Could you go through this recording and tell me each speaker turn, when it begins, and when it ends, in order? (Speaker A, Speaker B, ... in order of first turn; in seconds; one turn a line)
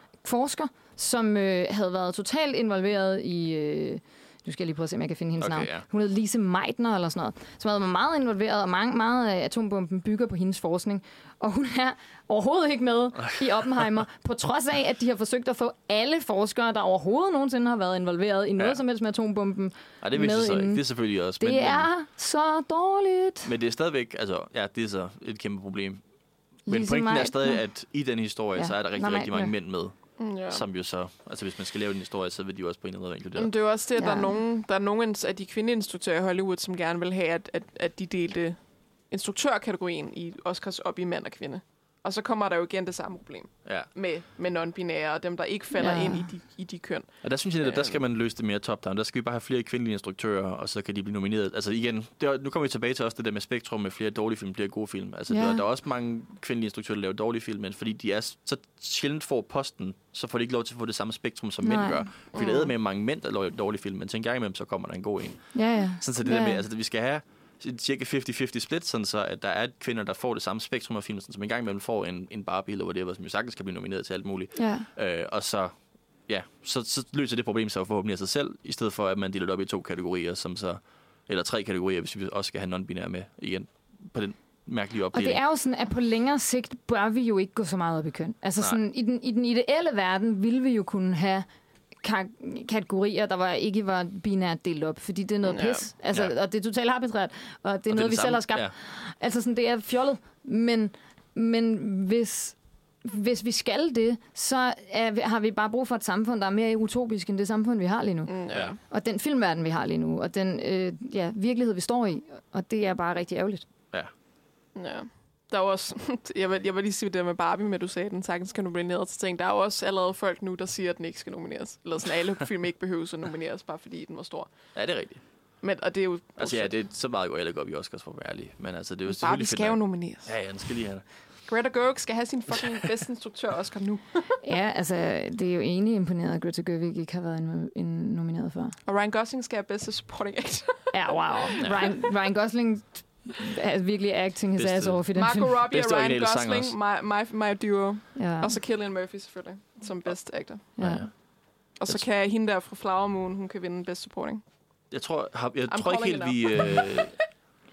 Speaker A: 0.2-23.5
Speaker B: 5.4-5.9
Speaker B: 20.0-21.9
Speaker B: 23.4-26.1
Speaker B: 26.6-33.7
Speaker A: 26.7-27.7
Speaker A: 28.6-29.5
Speaker C: 30.2-30.6
Speaker C: 33.4-48.0
Speaker A: 34.0-34.4
Speaker A: 45.8-46.3
Speaker B: 47.2-85.4
Speaker A: 55.3-55.6
Speaker A: 61.6-62.1
Speaker C: 62.3-62.7
Speaker A: 65.5-66.6
Speaker A: 74.6-74.9
Speaker A: 85.1-91.5
Speaker A: 92.0-113.7
Speaker C: 95.5-95.9
Speaker B: 97.9-98.8
Speaker C: 108.3-108.8
Speaker C: 114.8-124.8
Speaker B: 124.8-125.2
Speaker C: 125.6-126.8
Speaker B: 126.4-131.1
Speaker C: 129.1-130.6
Speaker C: 131.5-134.4
Speaker B: 132.5-132.8
Speaker A: 134.4-138.8
Speaker C: 138.9-142.0
Speaker A: 140.9-145.6
Speaker B: 141.6-141.9
Speaker B: 144.6-146.8
Speaker C: 145.2-151.2
Speaker A: 148.2-148.6
Speaker A: 150.8-151.1
Speaker B: 150.8-151.2
Speaker C: 151.8-154.4
Speaker B: 154.9-157.3
Speaker C: 155.7-157.2